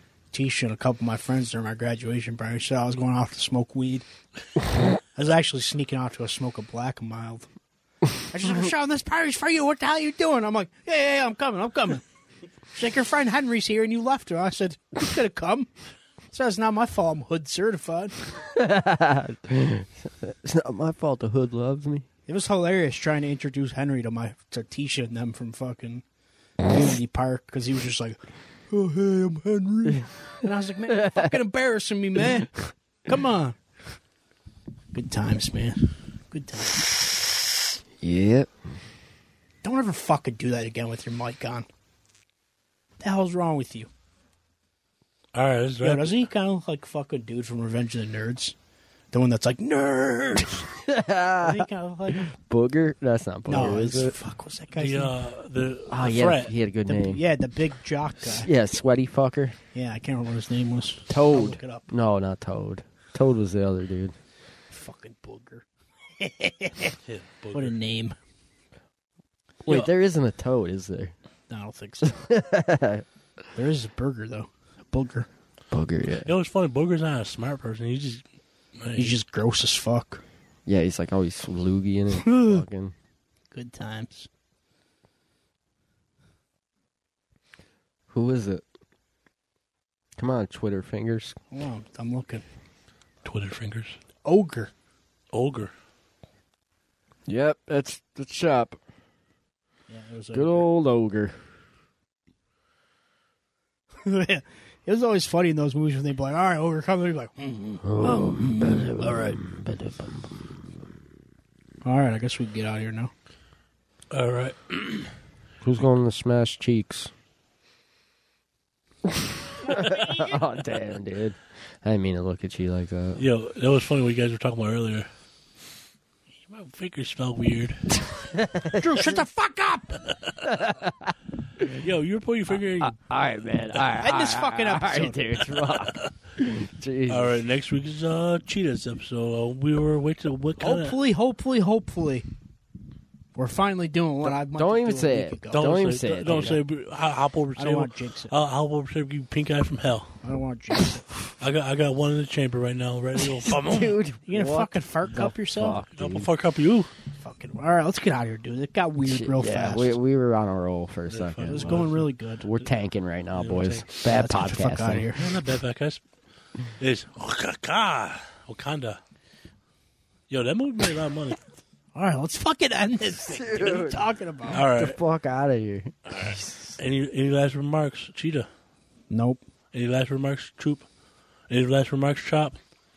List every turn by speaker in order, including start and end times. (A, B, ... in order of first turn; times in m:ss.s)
0:00.3-0:04.0 A
0:05.1-0:07.5 A
0:08.3-0:12.0 A
0:12.7-0:15.7 A
0:16.3-0:18.1 A
0:18.4-0:22.0 B
0:22.3-0:26.0 A
0:26.6-0:28.2 A
0:28.7-0:33.6 A
0:30.9-0:31.3 B
0:34.9-0:36.8 A
0:38.0-0:38.5 B
0:39.6-0:41.6 A
0:43.0-0:43.9 A
0:45.3-0:46.2 C
0:45.8-0:48.5 A
0:49.1-0:50.7 A
0:50.6-0:54.1 B
0:51.4-0:52.3 A
0:53.5-0:55.1 A
0:54.7-0:56.5 C
0:55.9-0:57.2 B
0:56.8-0:58.5 A
0:58.2-0:59.6 B
0:59.7-1:01.9 A
1:01.1-1:04.1 B
1:04.7-1:05.6 A
1:06.2-1:07.0 A
1:07.0-1:07.7 C
1:07.5-1:08.2 A
1:09.6-1:11.1 B
1:11.5-1:12.2 A
1:12.0-1:13.0 B
1:13.5-1:15.3 A
1:15.7-1:16.3 B
1:16.2-1:18.2 C
1:18.8-1:19.2 C
1:19.0-1:20.2 A
1:20.6-1:22.9 B
1:22.1-1:22.6 A
1:23.5-1:24.3 A
1:28.1-1:28.6 B
1:30.2-1:31.4 B
1:31.5-1:32.4 A
1:33.2-1:34.0 C
1:34.2-1:34.7 A
1:35.3-1:35.7 C
1:37.3-1:38.8 B
1:39.9-1:40.7 A
1:40.3-1:41.4 B
1:44.0-1:49.1 A
1:47.8-1:50.5 B
1:51.8-1:53.1 A
1:54.1-1:55.1 C
1:55.6-1:57.1 B
1:59.0-2:03.2 B
1:59.9-2:00.2 C
2:03.2-2:05.1 C
2:06.4-2:07.8 C
2:08.1-2:09.0 B
2:08.7-2:10.0 A
2:10.4-2:11.8 B
2:11.7-2:12.9 C
2:12.8-2:17.4 B
2:14.0-2:15.2 A
2:15.6-2:16.1 C
2:17.1-2:21.0 C
2:20.6-2:22.2 A
2:23.3-2:25.7 A
2:24.2-2:26.6 B
2:25.5-2:30.1 C
2:27.6-2:28.3 A
2:30.2-2:31.0 A
2:31.4-2:34.0 C
2:33.3-2:36.3 B
2:34.3-2:35.8 A
2:36.0-2:36.9 C
2:37.1-2:40.0 A
2:39.0-2:45.1 B
2:41.1-2:42.0 C
2:41.4-2:42.5 A
2:43.3-2:44.0 C
2:44.0-2:45.2 A
2:45.1-2:46.0 C
2:46.8-2:49.0 C
2:50.3-2:51.4 C
2:51.9-2:54.6 A
2:53.2-2:54.0 B
2:54.5-2:55.0 C
2:54.6-2:56.8 B
2:56.1-2:58.5 C
2:59.1-2:59.4 A
2:59.7-3:00.8 C
3:01.5-3:02.6 C